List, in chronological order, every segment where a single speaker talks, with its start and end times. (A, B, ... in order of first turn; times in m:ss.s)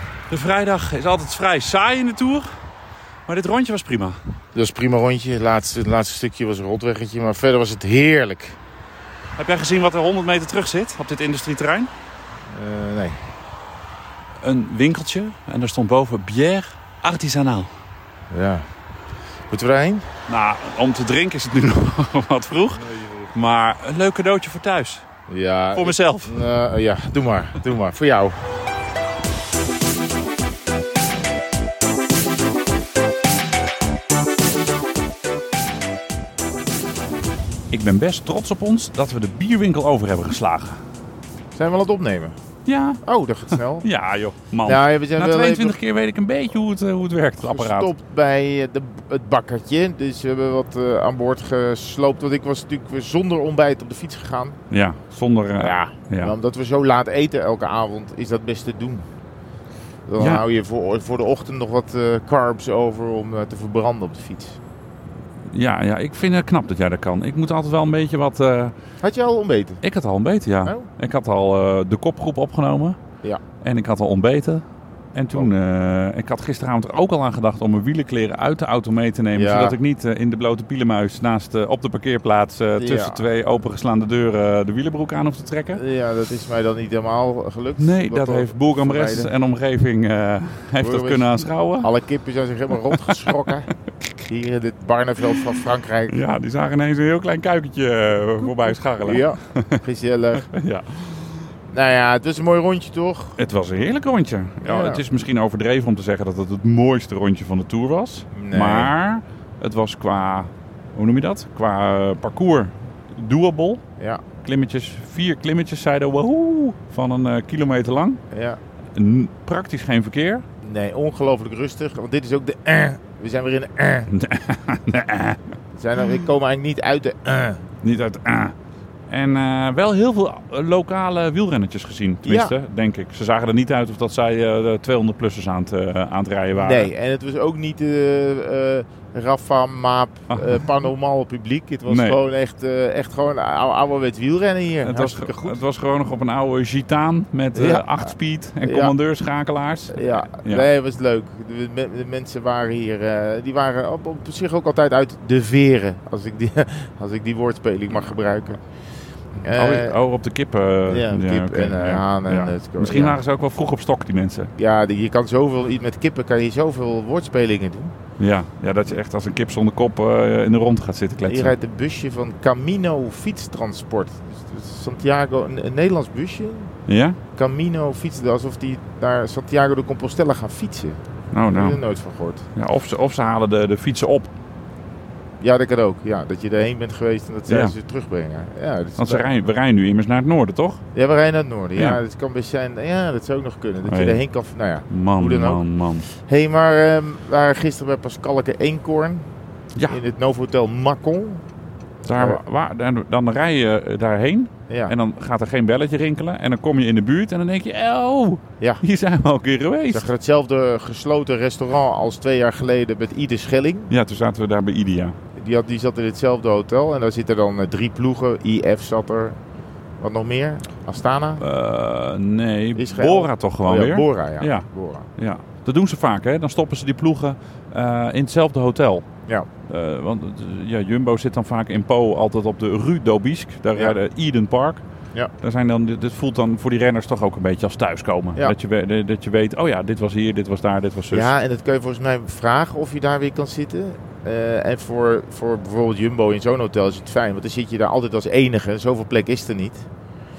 0:00.3-0:02.5 A
0:03.3-0:04.2 A
0:04.5-0:08.6 B
0:09.4-0:11.9 A
0:12.5-0:13.2 B
0:14.4-0:17.7 A
0:18.3-0:18.7 B
0:19.5-0:20.1 B
0:20.3-0:25.0 A
0:25.3-0:28.4 B
0:25.7-0:26.4 A
0:37.7-0:40.8 A
0:41.5-0:42.4 B
0:42.7-0:43.0 A
0:43.0-0:43.9 B
0:43.8-0:47.9 A
0:44.6-0:45.8 B
0:47.4-0:54.6 B
0:54.7-0:56.3 A
0:55.6-0:59.0 B
1:00.1-1:04.6 B
1:00.2-1:00.4 A
1:05.5-1:08.8 A
1:09.0-1:09.8 B
1:09.8-1:13.0 A
1:13.6-1:25.8 A
1:19.3-1:19.8 B
1:22.8-1:23.3 B
1:25.7-1:29.3 B
1:27.8-1:31.9 A
1:30.8-1:33.7 B
1:32.9-1:33.2 A
1:34.2-1:36.2 B
1:36.1-1:39.8 A
1:39.0-1:40.5 B
1:40.4-1:41.5 A
1:41.7-1:43.4 B
1:43.4-1:53.8 A
1:44.6-1:45.0 B
1:48.3-1:48.9 B
1:54.4-1:58.2 A
1:58.3-1:58.6 B
1:59.0-2:00.4 A
2:00.6-2:04.1 B
2:04.1-2:05.4 A
2:05.8-2:07.6 B
2:07.8-2:08.6 A
2:09.1-2:16.9 A
2:12.2-2:12.5 B
2:16.6-2:25.6 B
2:20.3-2:20.7 A
2:21.9-2:22.2 A
2:24.8-2:30.7 A
2:27.5-2:28.1 B
2:28.6-2:28.9 B
2:29.9-2:38.6 B
2:39.4-2:40.0 B
2:39.6-2:44.5 A
2:40.9-2:43.2 B
2:44.6-2:47.9 B
2:48.2-2:51.5 A
2:51.2-2:56.7 B
2:56.9-2:57.2 A
2:57.4-3:02.5 B
3:01.3-3:01.8 A
3:02.6-3:04.3 A
3:05.4-3:09.3 B
3:07.5-3:07.7 A
3:09.0-3:10.8 A
3:10.9-3:15.6 B
3:13.8-3:14.2 A
3:14.9-3:16.1 A
3:16.1-3:19.3 B
3:19.9-3:21.4 B
3:22.0-3:22.4 B
3:22.1-3:30.1 A
3:24.7-3:24.9 B
3:29.9-3:33.9 B
3:33.9-3:35.2 A
3:35.4-3:39.4 B
3:40.0-3:41.4 B
3:41.4-3:44.7 A
3:42.8-3:45.1 B
3:45.2-3:49.1 A
3:49.7-3:54.8 A
3:55.4-4:01.3 A
4:01.1-4:09.8 B